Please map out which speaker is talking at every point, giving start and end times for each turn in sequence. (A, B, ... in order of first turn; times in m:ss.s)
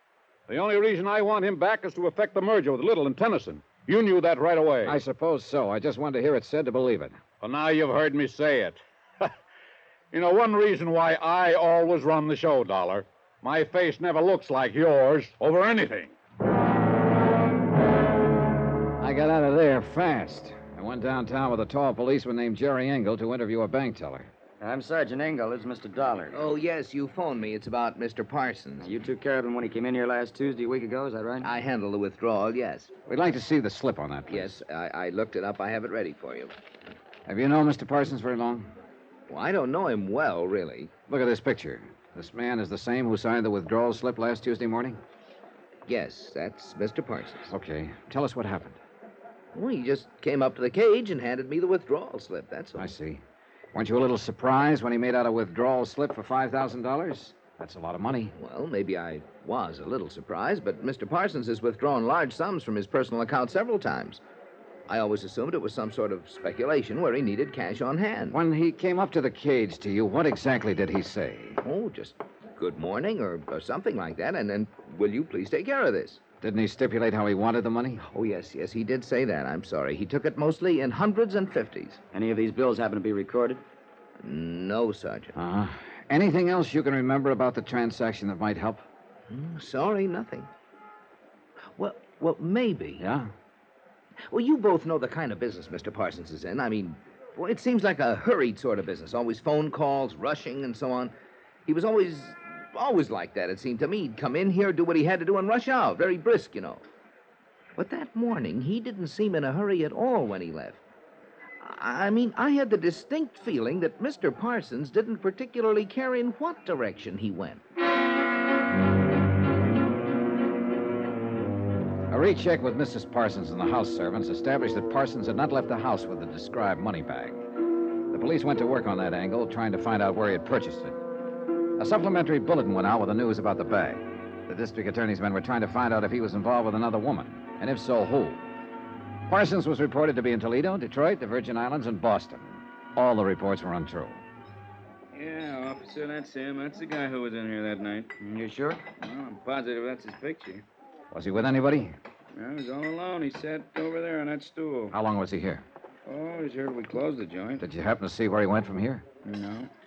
0:00.5-0:05.0 A
0:04.8-0:07.2 B
0:07.4-0:09.3 A
0:10.1-0:16.1 A
0:19.0-0:24.3 B
0:24.6-0:26.4 C
0:26.3-0:28.9 D
0:28.8-0:31.5 C
0:31.4-0:32.9 D
0:33.1-0:34.6 B
0:34.3-0:36.5 D
0:37.3-0:38.7 B
0:39.3-0:40.9 D
0:41.1-0:45.0 B
0:45.9-0:47.5 D
0:47.5-0:48.8 B
0:49.5-0:52.9 D
0:52.7-0:53.2 B
0:53.7-0:58.3 B
0:58.3-1:04.2 D
1:04.9-1:08.4 D
1:08.3-1:11.6 B
1:11.6-1:16.2 D
1:16.4-1:18.0 B
1:18.0-1:22.0 D
1:22.1-1:23.6 C
1:24.2-1:25.4 D
1:25.4-1:28.8 B
1:29.3-1:30.5 D
1:31.8-1:33.0 D
1:33.0-1:33.3 B
1:34.3-1:41.1 D
1:41.7-1:46.8 D
1:47.8-1:50.8 D
1:51.6-1:57.6 D
2:02.1-2:07.4 B
2:08.1-2:11.0 B
2:11.8-2:18.5 B
2:19.3-2:24.2 B
2:25.1-2:28.1 E
2:28.2-2:28.8 C
2:29.0-2:30.6 E
2:31.1-2:32.0 B
2:32.3-2:35.0 E
2:34.9-2:35.6 B
2:36.0-2:37.6 E
2:37.6-2:39.0 B
2:39.2-2:39.7 E